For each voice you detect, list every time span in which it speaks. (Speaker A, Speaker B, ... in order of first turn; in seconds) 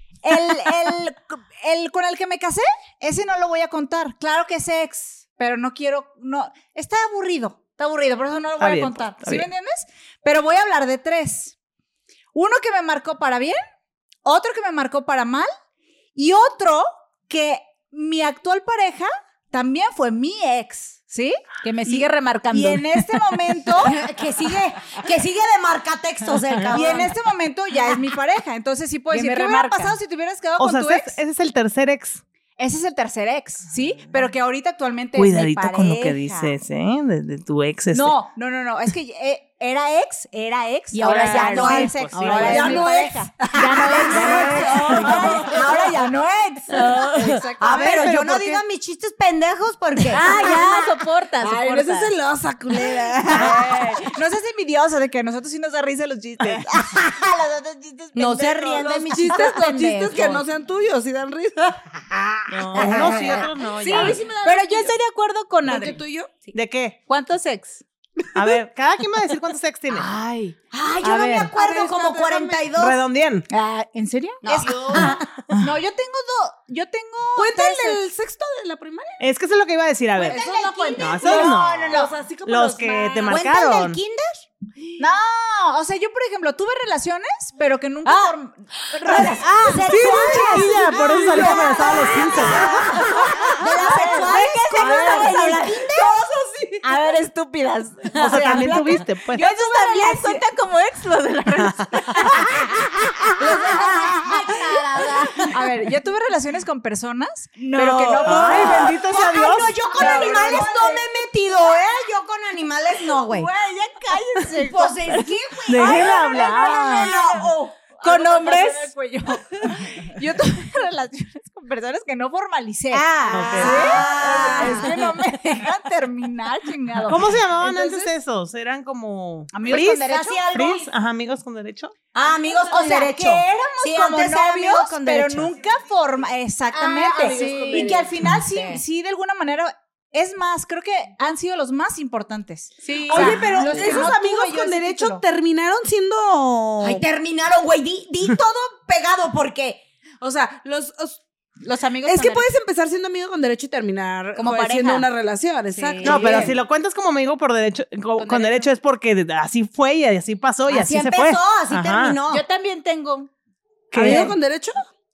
Speaker A: 0.2-11.6, 12.3-13.6, 14.2-15.5, 16.1-24.1, 26.7-31.2, 32.6-36.5, 37.9-48.6, 50.1-50.5, 53.3-58.6, 63.9-64.9, 70.0-71.5, 74.5-78.0, 80.3-81.5, 85.0-91.8, 92.5-95.7, 98.0-100.5, 101.6-104.3, 105.5-109.0, 110.0-110.8, 114.1-115.3, 115.8-128.1, 129.5-130.5, 132.6-145.2, 164.0-164.3
Speaker B: 8.6-9.5, 30.6-32.2, 35.1-38.2, 41.4-42.8, 47.6-48.6, 62.5-64.2, 66.5-67.0, 68.3-70.1, 72.8-73.5, 79.2-80.4, 81.0-84.0, 89.2-92.8, 98.2-99.4, 108.2-109.8, 115.7-117.2, 123.3-124.0, 127.0-131.9, 143.1-143.5, 156.0-162.2, 163.9-164.3
Speaker C: 21.7-23.0, 29.5-29.8, 41.0-41.6, 44.4-45.2, 50.1-52.1, 57.5-58.3, 63.8-66.0, 67.1-67.8, 73.5-74.4, 94.3-95.5, 96.8-102.4, 114.2-114.5, 118.0-118.9, 137.3-138.8, 142.8-143.4, 151.6-152.5, 154.4-155.1, 155.7-156.5, 158.2-158.7, 162.3-163.3
Speaker D: 23.8-27.1, 29.1-29.9, 40.9-42.9, 43.6-45.9, 46.7-50.6, 52.7-53.8, 56.7-57.2, 58.1-60.5, 62.7-64.3, 70.7-73.0, 74.4-75.3, 80.2-82.2, 83.3-84.5, 88.0-88.3, 88.8-96.2, 103.3-105.6, 107.8-113.5, 114.5-117.6, 122.9-125.0, 129.6-130.9, 132.1-135.5, 137.3-137.8, 146.8-149.8, 156.1-156.5, 160.7-162.4
Speaker E: 42.3-45.1, 50.3-50.7, 51.4-53.9, 58.8-62.0, 62.8-64.3, 65.7-66.4, 71.4-72.7, 74.7-75.2, 77.4-79.2, 80.3-83.4, 89.1-96.9, 110.0-111.0, 113.3-113.8, 116.8-117.7, 123.8-124.9, 136.7-138.2, 143.1-147.0, 150.2-151.2, 152.0-156.5, 163.9-164.9